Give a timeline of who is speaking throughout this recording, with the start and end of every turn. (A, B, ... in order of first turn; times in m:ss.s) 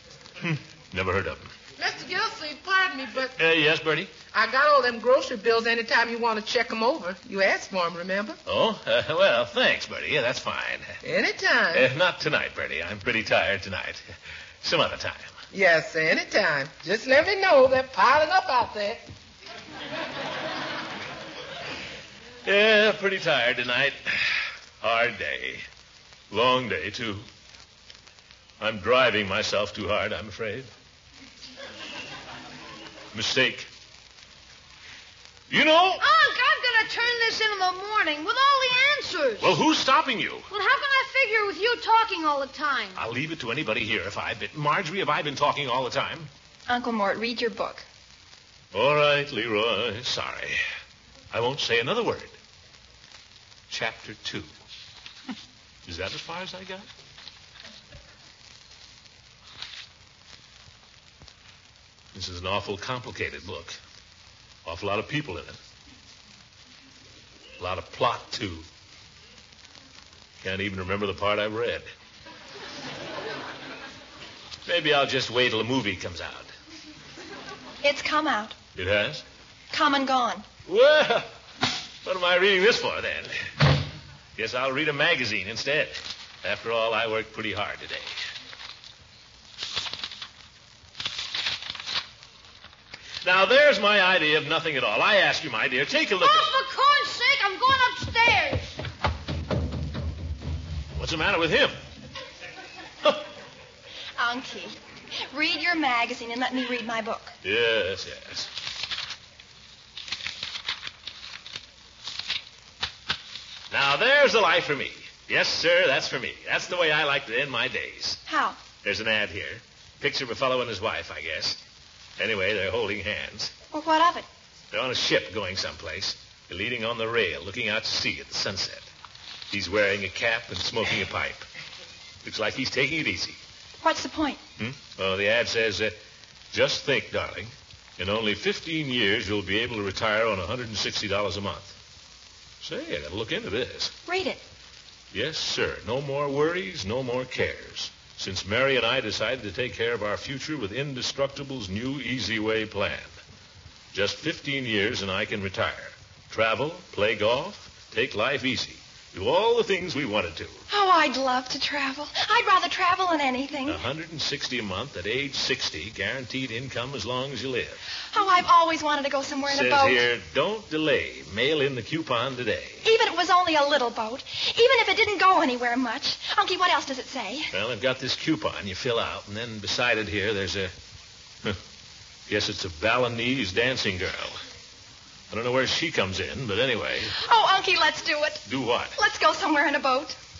0:00.4-0:01.5 A
0:01.8-0:03.3 B
0:03.4-0:04.1 A
0:04.3-0:08.4 B
0:08.4-0:11.0 A
0:11.0-0:11.9 B
0:11.7-0:14.0 A
0:14.6-0:15.3 A
0:15.5-0:19.0 B
0:22.4-0:25.6 A
0:26.3-0:27.2 A
0:28.6-0:30.7 A
0:33.1-0:33.7 A
0:35.5-0:36.0 A
0:36.0-0:39.6 C
0:39.4-0:40.5 A
0:40.5-0:43.0 C
0:42.9-0:46.3 A
0:46.7-0:47.8 D
0:48.7-0:50.6 A
0:51.3-0:52.3 A
0:53.7-0:54.5 A
0:55.8-0:56.8 A
1:02.1-1:03.8 A
1:04.6-1:05.6 A
1:07.6-1:08.6 A
1:10.4-1:11.9 A
1:14.6-1:16.5 A
1:17.8-1:18.6 D
1:18.8-1:19.2 A
1:19.7-1:20.4 D
1:20.7-1:21.3 A
1:22.0-1:23.3 A
1:24.4-1:28.1 A
1:33.2-1:36.5 A
1:36.2-1:38.7 C
1:40.9-1:41.7 A
1:44.2-1:47.3 D
1:47.4-1:48.5 A
1:53.7-1:58.2 A
1:58.3-1:58.6 D
1:58.8-2:01.6 A
2:02.2-2:03.5 A
2:03.7-2:04.2 D
2:04.7-2:08.9 A
2:09.5-2:11.4 A
2:12.2-2:13.4 A
2:13.8-2:14.4 D
2:14.6-2:16.0 A
2:16.5-2:21.7 A
2:22.6-2:23.9 A
2:24.0-2:24.4 D
2:25.1-2:33.1 A
2:33.9-2:40.6 A
2:40.7-2:43.8 D
2:43.6-2:47.8 A
2:48.1-2:50.0 D
2:49.5-2:52.8 A
2:52.8-2:57.5 D
2:57.5-3:00.7 A
3:02.3-3:04.4 A
3:05.3-3:07.2 A
3:07.2-3:08.4 D
3:08.4-3:08.9 A
3:09.0-3:10.2 D